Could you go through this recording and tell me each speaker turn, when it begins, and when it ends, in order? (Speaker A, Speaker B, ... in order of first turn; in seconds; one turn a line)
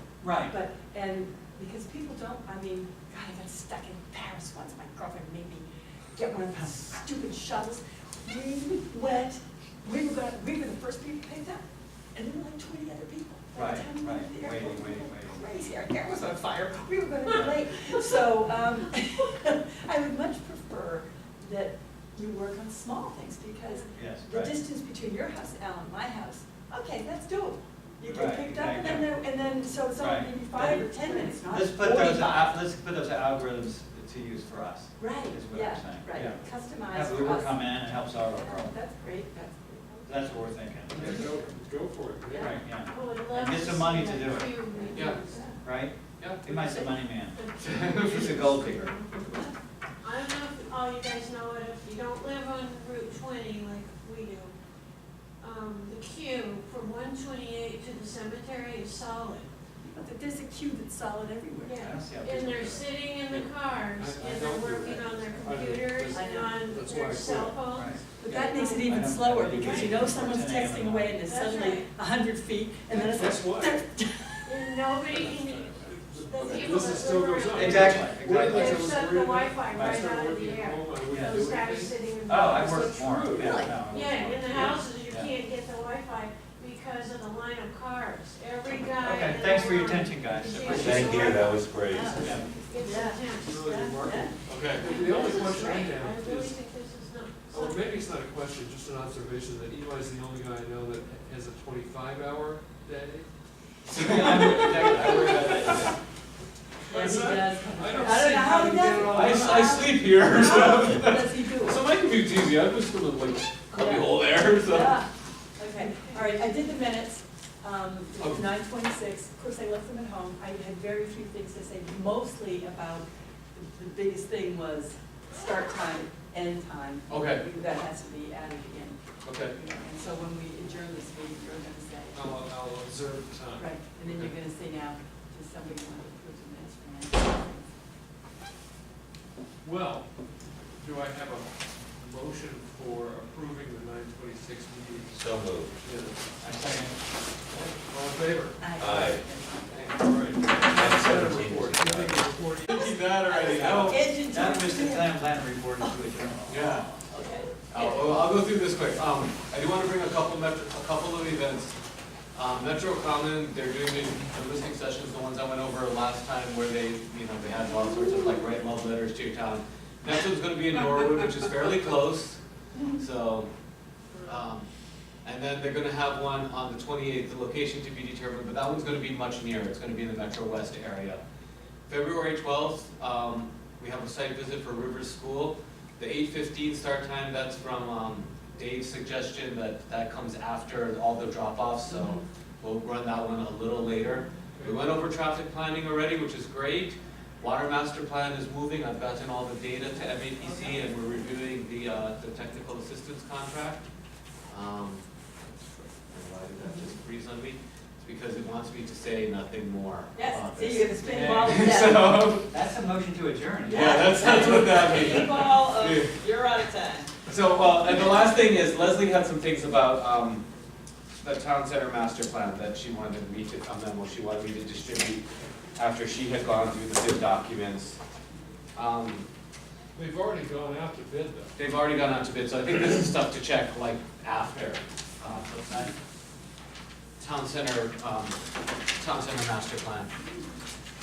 Speaker A: 0.2-0.5
Speaker B: 0.5-11.6
Speaker B: 12.1-32.5
Speaker A: 13.6-15.5
Speaker C: 23.6-24.0
Speaker A: 23.9-24.6
Speaker A: 28.1-29.1
Speaker A: 30.0-30.9
Speaker A: 31.5-38.7
Speaker B: 35.0-40.4
Speaker A: 40.1-41.6
Speaker D: 40.9-42.6
Speaker B: 42.3-42.6
Speaker A: 42.3-45.0
Speaker C: 42.9-45.6
Speaker B: 44.7-45.6
Speaker A: 45.6-48.9
Speaker C: 47.3-49.2
Speaker E: 47.6-48.9
Speaker B: 49.3-49.5
Speaker C: 50.0-54.5
Speaker C: 55.4-59.5
Speaker B: 59.8-61.9
Speaker C: 61.6-68.9
Speaker A: 61.8-62.9
Speaker D: 64.0-67.5
Speaker B: 66.1-66.5
Speaker A: 67.7-68.0
Speaker B: 68.2-74.8
Speaker A: 68.7-71.2
Speaker C: 71.2-71.9
Speaker D: 72.9-73.8
Speaker C: 74.4-82.9
Speaker D: 75.0-82.0
Speaker A: 77.5-79.0
Speaker E: 78.0-78.4
Speaker A: 79.7-80.0
Speaker A: 81.1-81.5
Speaker A: 82.3-85.3
Speaker D: 82.5-83.9
Speaker B: 83.4-83.8
Speaker C: 83.9-91.7
Speaker D: 84.5-84.8
Speaker A: 89.0-91.4
Speaker B: 90.7-91.0
Speaker E: 90.7-91.0
Speaker F: 90.7-92.4
Speaker B: 91.9-94.3
Speaker A: 92.2-92.5
Speaker C: 92.6-94.0
Speaker D: 93.4-96.6
Speaker E: 94.5-94.9
Speaker C: 94.8-97.8
Speaker D: 97.5-103.3
Speaker D: 103.9-105.8
Speaker A: 103.9-105.9
Speaker E: 104.1-105.8
Speaker D: 106.9-110.9
Speaker B: 106.9-111.8
Speaker E: 109.0-111.3
Speaker D: 111.7-112.8
Speaker E: 111.8-115.0
Speaker B: 113.7-132.2
Speaker C: 115.8-116.3
Speaker E: 118.2-118.5
Speaker E: 127.1-127.5
Speaker E: 129.2-129.6
Speaker D: 132.1-133.9
Speaker B: 133.6-137.7
Speaker E: 134.0-134.3
Speaker D: 139.6-140.1
Speaker D: 140.8-145.2
Speaker F: 145.1-145.7
Speaker D: 145.8-146.2
Speaker A: 146.4-147.0
Speaker D: 147.5-148.7
Speaker B: 148.6-149.8
Speaker F: 148.8-149.2
Speaker E: 149.7-150.0
Speaker D: 150.0-153.9
Speaker F: 150.7-152.2
Speaker E: 152.7-154.0
Speaker B: 153.3-155.2
Speaker A: 154.3-157.1
Speaker E: 156.5-156.9
Speaker B: 157.1-158.0
Speaker E: 157.7-161.8
Speaker E: 162.3-172.4
Speaker E: 173.0-173.5
Speaker E: 174.2-174.7
Speaker E: 175.2-181.2
Speaker E: 181.9-203.8
Speaker D: 194.6-194.8
Speaker E: 204.5-205.1
Speaker E: 205.8-212.5
Speaker B: 206.6-206.9
Speaker B: 210.2-212.2
Speaker A: 211.5-214.9
Speaker B: 213.7-217.1
Speaker E: 213.7-216.1
Speaker E: 217.3-220.4
Speaker E: 221.2-225.2
Speaker E: 225.8-228.0
Speaker E: 228.8-229.3
Speaker D: 230.0-231.5
Speaker E: 231.6-235.8
Speaker E: 237.2-238.4
Speaker E: 239.0-240.1